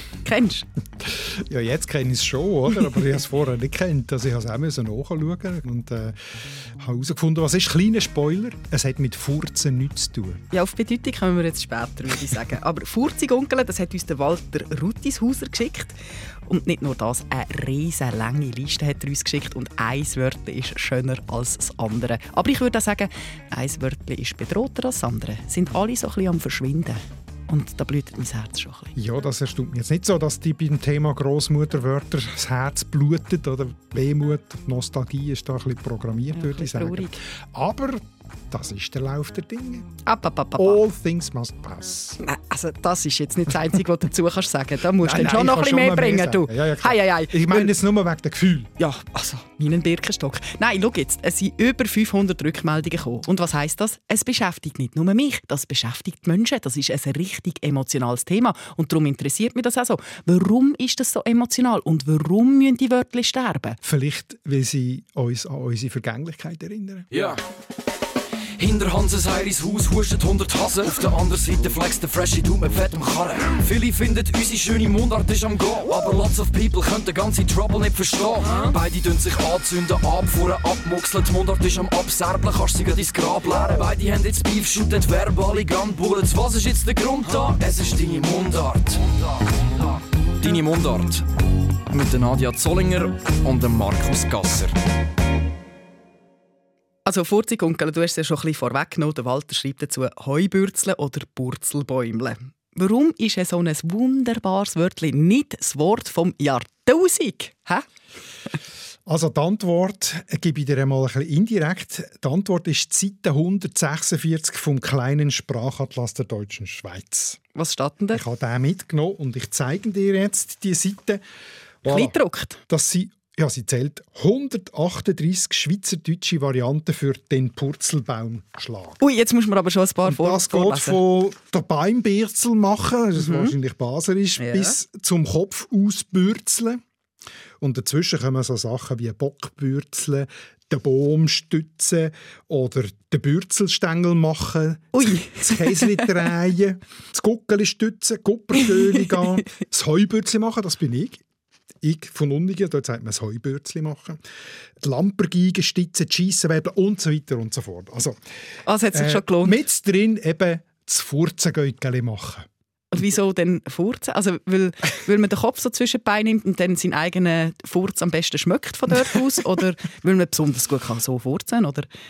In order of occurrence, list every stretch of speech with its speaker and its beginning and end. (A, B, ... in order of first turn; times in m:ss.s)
0:00.2-0:00.7 A
0:01.0-0:10.4 B
0:10.5-0:28.9 A
0:29.0-0:39.9 B
0:36.3-0:37.2 A
0:40.0-0:40.8 A
0:40.6-0:42.2 B
0:42.2-0:47.7 A
0:45.0-0:48.7 B
0:48.8-1:03.8 A
1:03.8-1:07.1 B
1:07.1-1:07.4 C
1:08.6-1:29.8 C
1:30.4-1:31.2 C
1:31.9-1:34.7 C
1:37.0-1:47.9 A
1:49.0-1:57.4 B
1:57.5-1:58.2 A
1:58.1-2:01.2 B
2:01.8-2:02.1 B
2:01.8-2:02.6 A
2:02.7-2:09.0 B
2:09.0-2:11.0 A
2:10.0-2:16.8 B
2:13.2-2:13.5 A
2:14.4-2:14.8 A
2:17.6-2:31.2 B
2:24.9-2:26.1 A
2:28.6-2:29.4 A
2:31.8-2:34.2 B
2:34.8-2:38.2 B
2:38.6-2:39.6 A
2:38.9-2:42.5 B
2:42.9-2:51.9 A